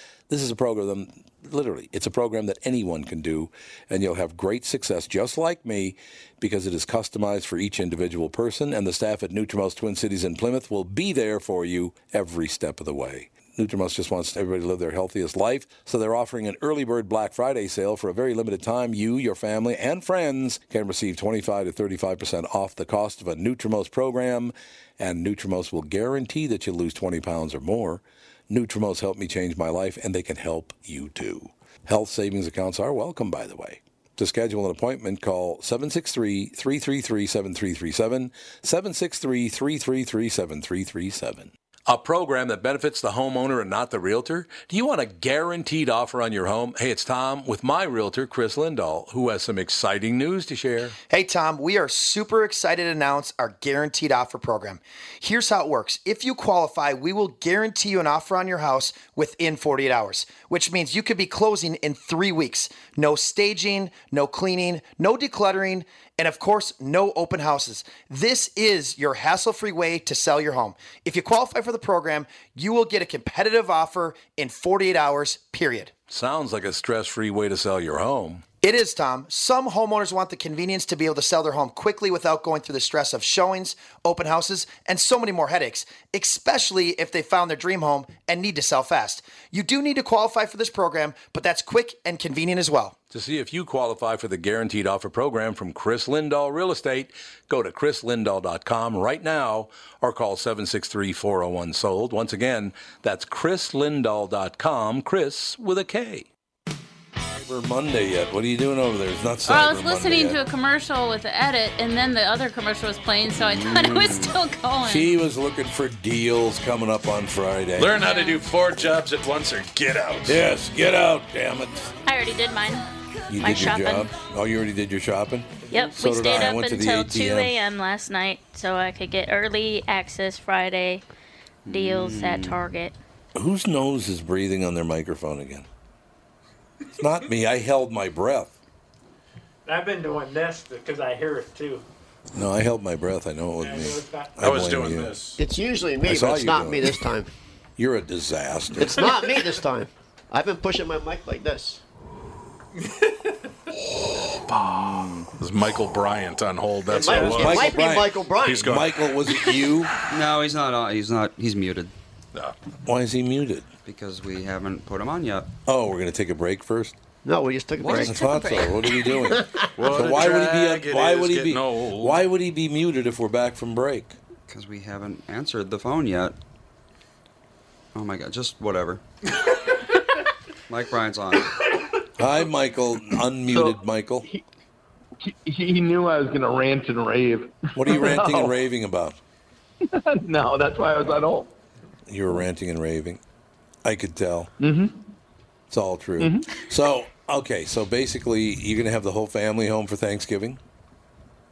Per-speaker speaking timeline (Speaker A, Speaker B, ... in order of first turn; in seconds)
Speaker A: 0.3-51.0, 76.1-78.5, 93.1-106.3, 107.4-110.4, 114.8-118.0, 120.2-122.0, 123.3-127.5, 133.4-135.7, 137.0-138.6, 142.3-145.2, 146.0-147.0, 147.8-149.1, 157.3-159.9, 162.8-163.7, 165.7-166.9, 167.9-174.2, 182.2-184.3, 187.8-189.2, 192.1-193.2, 193.8-194.5, 195.7-200.6
Speaker B: 51.1-75.9, 78.6-93.0
Speaker C: 109.5-115.1, 118.0-118.4, 122.1-122.8, 123.4-124.1, 125.7-131.0, 131.7-133.0
Speaker D: 113.4-114.4, 131.7-132.6, 154.6-155.3, 160.1-161.9, 163.8-165.5, 167.8-168.6, 174.5-176.4, 177.9-179.0, 180.7-181.5
Speaker E: 117.8-120.4, 144.4-145.4, 154.0-157.7, 158.4-158.9, 169.8-172.2
Speaker F: 139.7-141.8, 143.6-144.3, 152.8-153.3
Speaker G: 145.4-147.3, 148.8-151.8, 156.9-158.8, 167.2-168.4, 169.3-169.7
Speaker H: 183.5-184.4, 185.2-188.5, 189.8-191.5, 194.6-195.0, 196.2-196.5